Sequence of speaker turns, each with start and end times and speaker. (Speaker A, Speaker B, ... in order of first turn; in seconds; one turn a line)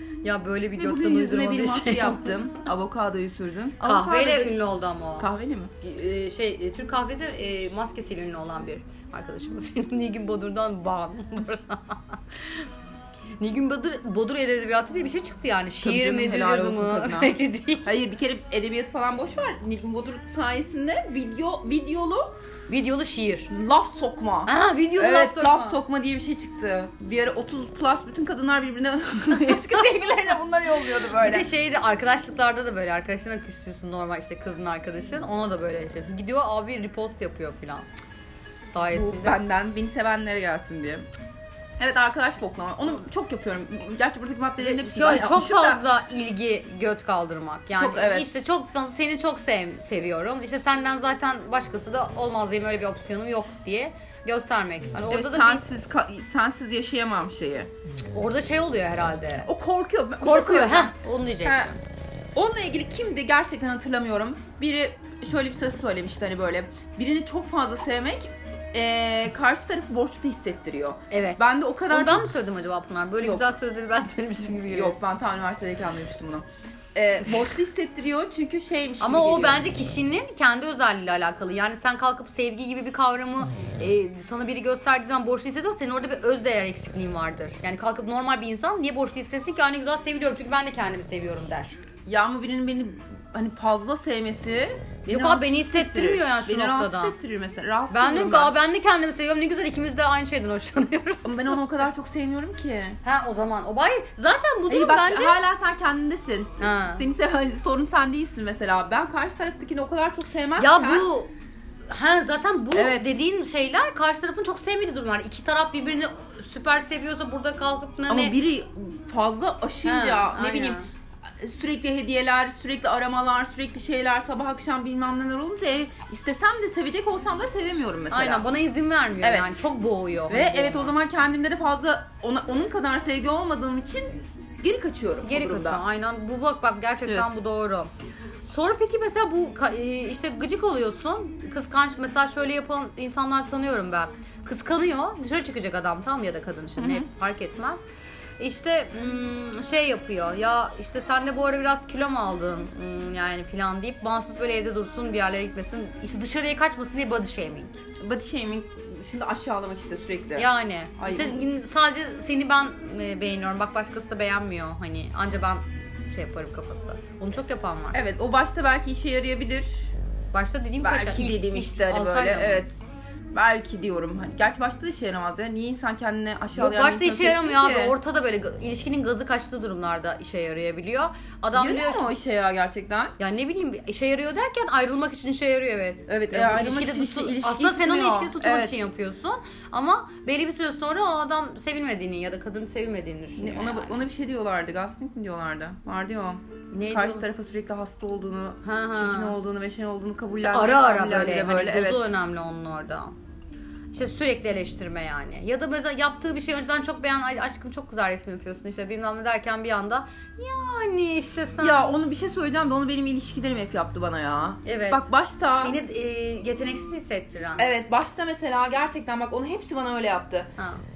Speaker A: 0.2-2.3
Speaker B: 0.8-4.6
Speaker A: 3.8-5.3
Speaker B: 5.2-5.7
Speaker A: 5.8-12.7
Speaker A: 13.4-17.9
Speaker B: 15.8-22.4
Speaker A: 22.7-23.5
Speaker B: 23.5-31.5
Speaker A: 24.5-25.8
Speaker A: 31.1-37.9
Speaker A: 38.7-39.5
Speaker B: 38.9-41.1
Speaker B: 41.8-45.8
Speaker A: 44.6-55.6
Speaker B: 47.8-48.4
Speaker B: 55.0-57.7
Speaker A: 58.1-59.5
Speaker B: 59.5-61.7
Speaker A: 60.2-61.7
Speaker B: 62.3-72.3
Speaker A: 71.1-75.0
Speaker B: 73.2-73.5
Speaker B: 74.7-79.6
Speaker A: 79.0-91.8
Speaker B: 92.1-98.5
Speaker A: 95.1-97.2
Speaker A: 97.9-101.6
Speaker B: 101.2-103.0
Speaker A: 103.0-105.4
Speaker B: 104.7-111.1
Speaker A: 106.6-107.0
Speaker A: 110.6-111.3
Speaker A: 111.9-118.3
Speaker B: 112.7-113.2
Speaker B: 118.1-128.5
Speaker A: 119.8-120.9
Speaker A: 128.1-130.9
Speaker B: 129.2-129.7
Speaker B: 130.3-135.8
Speaker A: 135.2-137.9
Speaker B: 137.1-137.3
Speaker A: 138.5-147.9
Speaker B: 146.8-147.1
Speaker A: 148.4-157.8
Speaker B: 158.0-161.4
Speaker A: 160.4-168.0
Speaker B: 167.9-169.9
Speaker A: 170.3-172.7
Speaker B: 170.8-172.8
Speaker B: 173.3-177.9
Speaker A: 176.6-182.1
Speaker B: 181.6-183.2
Speaker A: 183.2-194.0
Speaker B: 186.1-188.9
Speaker B: 193.4-202.1
Speaker A: 196.7-197.2
Speaker A: 198.6-199.4
Speaker A: 200.4-203.2
Speaker A: 203.9-211.9
Speaker B: 211.6-215.8
Speaker A: 214.7-217.7
Speaker B: 217.6-220.5